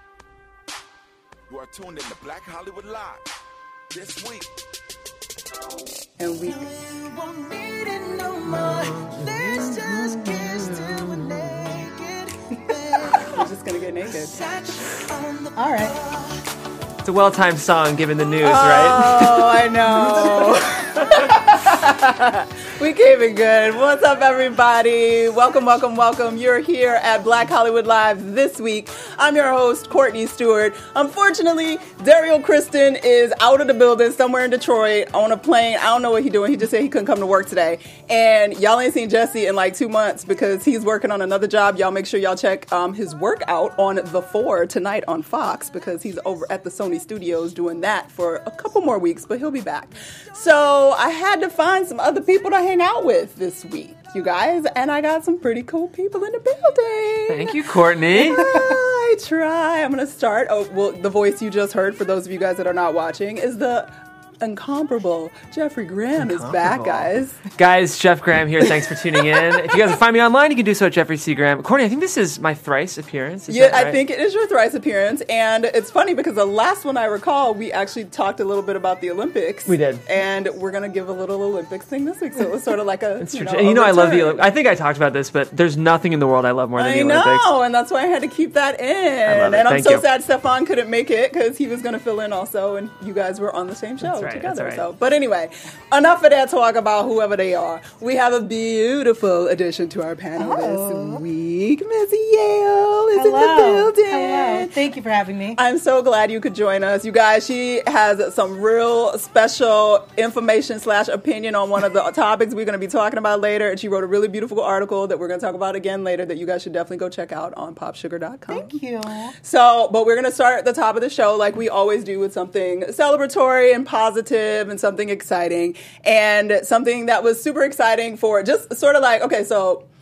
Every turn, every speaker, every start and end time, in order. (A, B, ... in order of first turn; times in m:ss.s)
0:01.5-0:03.2 A
0:03.9-0:04.5 A
0:06.2-0:06.7 B
0:06.7-0:13.4 C
0:09.1-0:10.9 D
0:13.2-0:14.5 B
0:15.5-0:16.0 C
0:17.0-0:19.6 D
0:18.4-0:57.6 B
0:20.2-0:20.5 C
0:57.3-0:58.6 D
0:58.1-1:07.4 B
1:06.2-1:14.0 D
1:09.4-1:09.7 B
1:13.5-1:24.4 B
1:19.7-1:20.0 D
1:23.2-1:27.5 D
1:26.8-1:44.8 B
1:29.3-1:30.1 D
1:34.0-1:34.8 D
1:40.4-1:41.2 C
1:43.1-1:45.6 C
1:45.6-1:58.7 B
1:58.5-1:59.3 C
1:59.4-2:09.8 B